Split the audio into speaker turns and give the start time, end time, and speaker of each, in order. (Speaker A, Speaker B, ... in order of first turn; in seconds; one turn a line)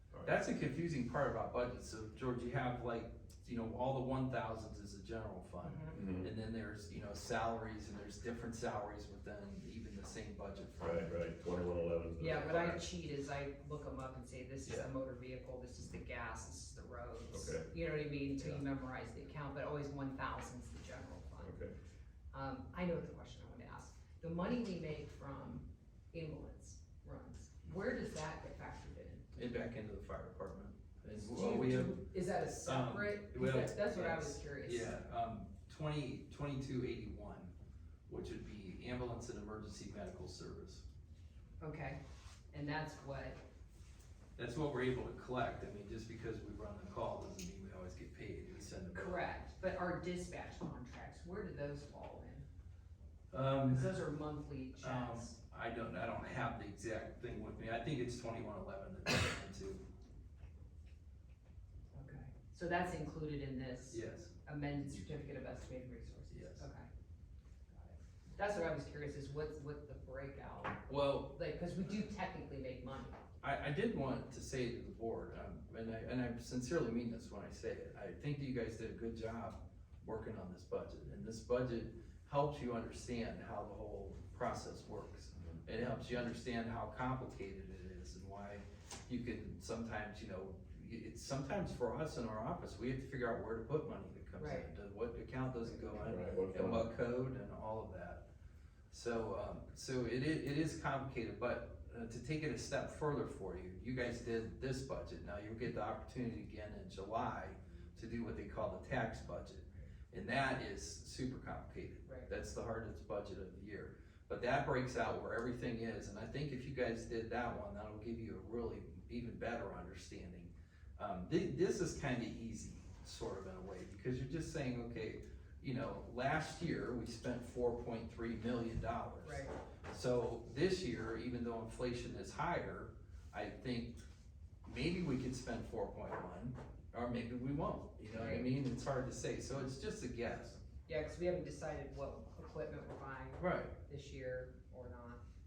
Speaker A: 0.2-11.1
Speaker B: 5.6-6.0
Speaker C: 5.9-6.3
Speaker C: 10.8-12.7
Speaker B: 12.2-21.5
Speaker A: 12.3-12.8
Speaker A: 14.7-14.9
Speaker C: 17.3-17.7
Speaker C: 21.4-21.7
Speaker B: 22.3-29.3
Speaker A: 29.4-32.0
Speaker B: 31.1-35.0
Speaker A: 32.6-37.5
Speaker A: 38.1-40.8
Speaker B: 41.6-42.0
Speaker B: 42.5-43.4
Speaker A: 44.4-49.3
Speaker B: 48.9-52.5
Speaker A: 53.3-54.0
Speaker B: 53.6-55.4
Speaker A: 54.8-59.8
Speaker B: 61.9-66.9
Speaker A: 63.9-64.3
Speaker A: 66.3-66.6
Speaker B: 67.7-73.2
Speaker A: 70.9-71.3
Speaker A: 73.4-98.2
Speaker C: 85.3-85.6
Speaker B: 94.4-94.7
Speaker C: 96.0-96.9
Speaker A: 98.9-134.0
Speaker B: 129.2-129.5
Speaker A: 134.7-140.6
Speaker B: 138.1-138.5
Speaker B: 140.9-145.2
Speaker A: 143.4-143.7